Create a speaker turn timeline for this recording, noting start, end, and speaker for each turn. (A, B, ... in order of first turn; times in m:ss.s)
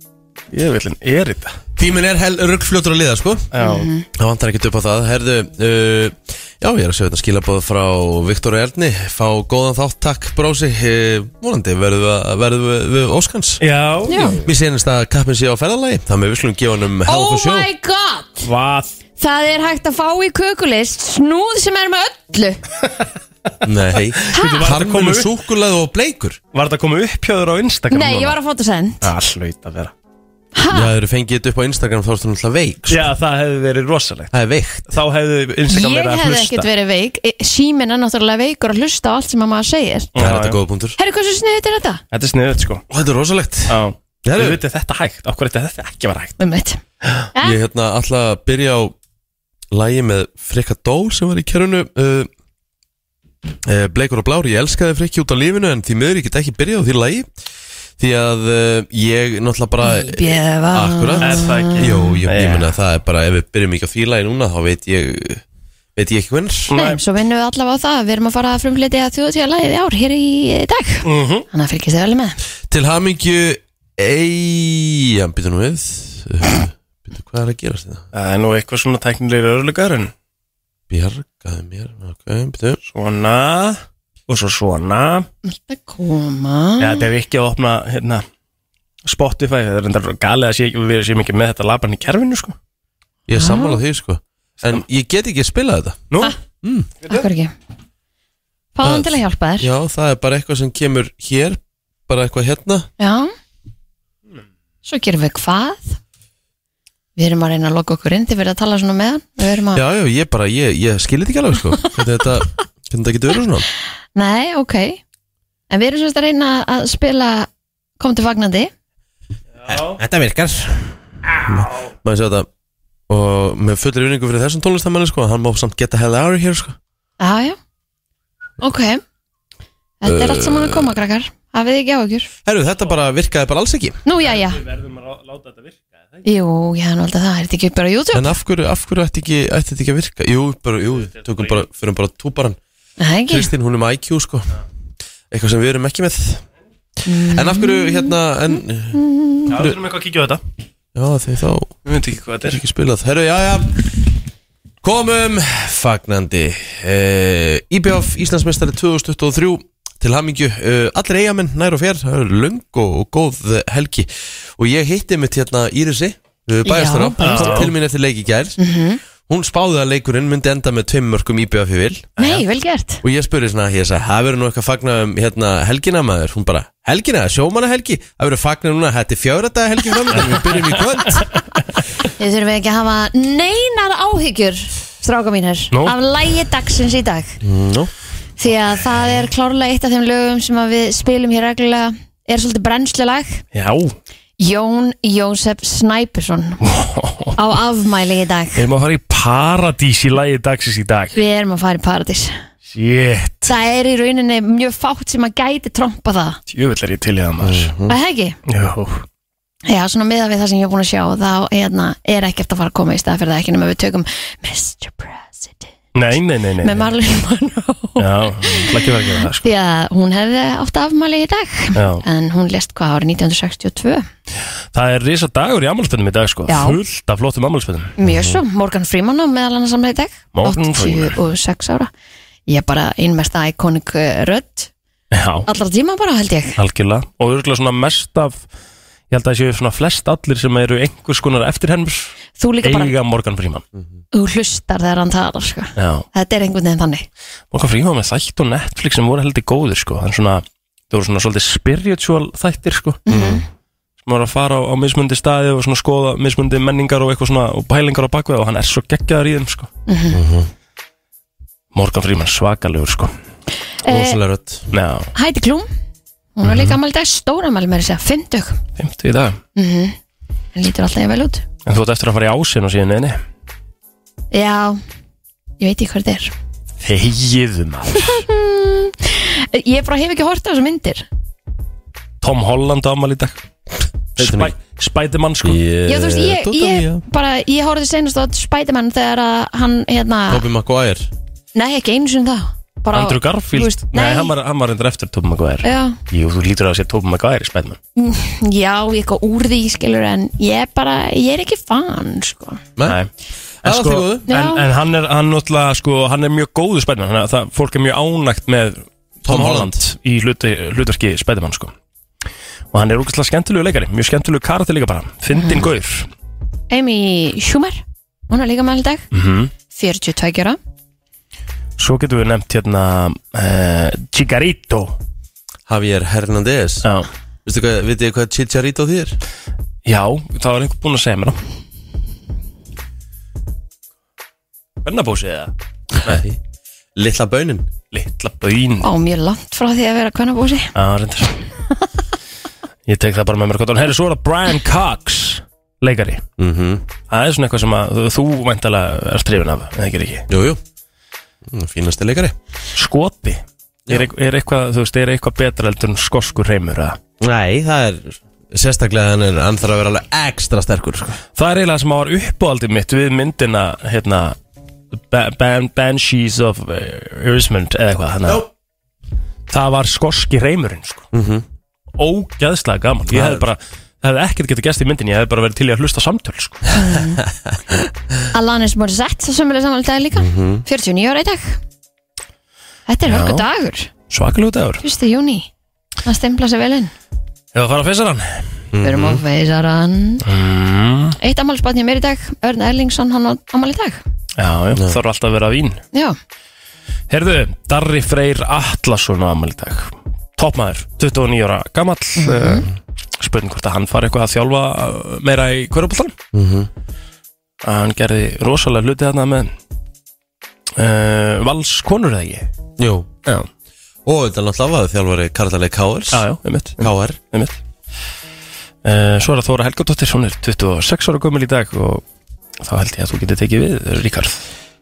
0:00.5-0:01.6 A
0:01.8-0:03.5 B
0:03.5-0:03.9 A
0:03.6-0:04.0 C
0:04.2-0:13.6 B
0:13.6-0:14.4 A
0:14.1-0:14.4 C
0:14.4-0:17.7 B
0:17.1-0:18.5 C
0:18.4-0:19.0 A
0:19.2-0:22.6 C
0:23.6-0:26.4 B
0:24.2-0:25.3 A
0:24.3-0:24.6 C
0:26.5-0:28.4 A
0:27.9-0:29.1 C
0:29.0-0:29.9 A
0:30.6-0:30.9 C
0:30.7-0:33.1 B
0:32.9-0:34.3 A
0:34.3-0:35.0 B
0:34.9-0:36.7 A
0:35.7-0:40.1 C
0:40.2-0:40.6 A
0:40.2-0:41.0 B
0:41.0-0:42.0 C
0:42.1-0:42.8 A
0:42.9-0:44.6 B
0:43.7-0:46.3 A
0:46.4-0:46.8 C
0:47.3-0:47.6 C
0:47.4-0:48.9 B
0:49.7-0:52.3 B
0:53.6-0:57.3 B
0:58.0-1:05.4 B
0:59.8-1:01.9 C
1:01.2-1:02.7 A
1:06.0-1:06.7 B
1:06.7-1:12.4 C
1:06.7-1:07.0 A
1:11.0-1:11.5 A
1:12.7-1:18.0 B
1:18.1-1:20.1 A
1:20.9-1:22.8 B
1:22.9-1:25.3 A
1:25.4-1:27.1 C
1:26.8-1:28.2 A
1:29.0-1:32.6 A
1:33.3-1:36.1 B
1:33.4-1:33.8 C
1:36.1-1:36.4 A
1:36.6-1:36.9 B
1:37.1-1:37.5 C
1:38.8-1:39.7 C
1:38.8-1:42.9 B
1:43.0-1:43.3 C
1:44.9-1:46.0 C
1:47.2-1:49.8 C
1:49.7-1:53.7 B
1:54.2-1:55.0 C
1:55.7-1:57.5 C
1:58.0-1:58.7 C
1:59.6-2:00.0 A
1:59.7-2:02.5 B
2:01.3-2:01.8 A
2:03.1-2:06.8 B
2:07.2-2:07.6 C
2:08.6-2:09.0 C
2:10.0-2:12.3 C
2:10.0-2:11.0 B
2:12.5-2:14.0 B
2:14.0-2:14.6 C
2:14.2-2:16.0 A
2:16.2-2:18.4 C
2:18.1-2:22.6 B
2:21.3-2:21.5 A
2:23.0-2:23.5 C
2:23.3-2:24.5 B
2:25.3-2:26.4 B
2:27.1-2:28.2 C
2:27.2-2:29.0 B
2:29.0-2:29.5 C
2:29.5-2:30.4 A
2:31.0-2:31.8 B
2:31.9-2:32.6 A
2:32.4-2:33.8 B
2:34.8-2:48.6 B
2:46.6-2:47.7 C
2:47.2-2:47.7 A
2:48.6-2:49.0 C
2:49.3-2:52.1 B
2:52.2-2:52.4 A
2:52.2-2:53.0 C
2:53.0-3:01.3 B
3:02.1-3:07.4 C
3:07.4-3:07.9 B
3:08.4-3:13.4 C
3:13.5-3:14.0 A
3:14.4-3:16.6 C
3:16.6-3:17.4 A
3:17.4-3:18.6 C
3:18.6-3:21.2 A
3:21.1-3:22.4 C
3:22.7-3:23.5 A
3:23.5-3:26.4 C
3:26.5-3:27.7 A
3:27.4-3:28.0 B
3:27.9-3:28.4 C
3:28.5-3:29.0 A
3:29.7-3:35.7 C
3:36.0-3:36.9 A
3:36.6-3:38.7 C
3:38.0-3:39.4 A
3:39.4-3:44.1 C
3:41.8-3:42.0 A
3:44.7-3:47.9 A
3:46.5-3:46.8 C
3:48.0-3:51.9 C
3:48.0-3:48.4 B
3:50.3-3:51.2 A
3:52.5-3:54.7 C
3:55.1-3:55.5 A
3:55.5-3:56.6 C
3:56.6-3:58.4 A
3:59.1-4:03.6 A
4:02.4-4:03.0 C
4:04.1-4:07.1 C
4:05.8-4:06.1 A
4:07.5-4:13.0 A
4:13.1-4:13.4 C
4:13.1-4:13.4 B
4:14.0-4:19.7 A
4:19.9-4:20.2 C
4:20.1-4:20.5 B
4:21.7-4:23.1 A
4:23.8-4:24.2 C
4:23.9-4:24.7 B
4:24.7-4:25.1 A
4:25.2-4:25.7 C
4:26.4-4:28.6 C
4:28.8-4:29.4 A
4:29.6-4:30.0 C
4:30.6-4:31.4 C
4:31.7-4:33.2 A
4:34.3-4:34.8 C
4:35.6-4:36.3 C
4:36.8-4:38.2 A
4:38.0-4:41.0 C
4:42.2-4:43.4 A
4:44.2-4:45.6 A
4:44.2-4:44.5 B
4:45.4-4:47.0 B
4:45.9-4:50.4 C
4:50.3-4:51.1 B
4:51.6-4:54.3 C
4:52.9-4:57.8 A
4:55.6-4:56.0 C
4:58.0-5:02.6 C
5:03.6-5:04.3 B
5:03.6-5:11.7 A
5:04.3-5:04.6 C
5:09.3-5:09.8 B
5:12.7-5:16.1 A
5:15.3-5:15.7 C
5:16.7-5:19.1 C
5:19.1-5:19.5 A
5:19.7-5:20.6 C
5:21.8-5:25.0 A
5:25.7-5:26.9 B
5:27.4-5:29.2 B
5:29.9-5:31.4 A
5:34.8-5:35.5 A
5:36.0-5:36.4 B
5:37.0-5:37.7 B
5:37.9-5:38.9 A
5:38.8-5:40.7 C
5:40.8-5:41.5 A
5:42.9-5:46.2 A
5:46.4-5:46.8 B
5:47.1-5:50.3 A
5:50.3-5:50.6 B
5:51.5-5:52.4 B
5:52.8-5:57.0 A
5:57.2-6:01.2 B
6:01.4-6:04.4 A
6:05.0-6:08.5 A
6:09.5-6:11.1 A
6:11.1-6:11.4 B
6:12.0-6:16.7 A
6:13.1-6:13.5 B
6:16.7-6:17.2 C
6:18.3-6:21.6 C
6:20.2-6:20.6 B
6:22.9-6:23.9 C
6:23.1-6:23.4 A
6:24.1-6:24.8 A
6:24.8-6:25.5 C
6:26.0-6:26.9 C
6:27.5-6:28.4 A
6:28.7-6:29.2 B
6:28.8-6:30.2 C
6:30.2-6:31.2 A
6:31.2-6:34.0 C
6:34.4-6:35.8 A
6:37.1-6:46.2 A
6:42.2-6:42.7 C
6:46.3-6:46.7 B
6:47.6-6:49.5 A
6:50.8-6:52.5 A
6:52.8-6:53.1 B
6:54.1-6:56.2 B
6:56.1-6:57.6 A
6:56.8-6:57.2 B
6:58.8-7:02.0 A
7:02.6-7:04.4 A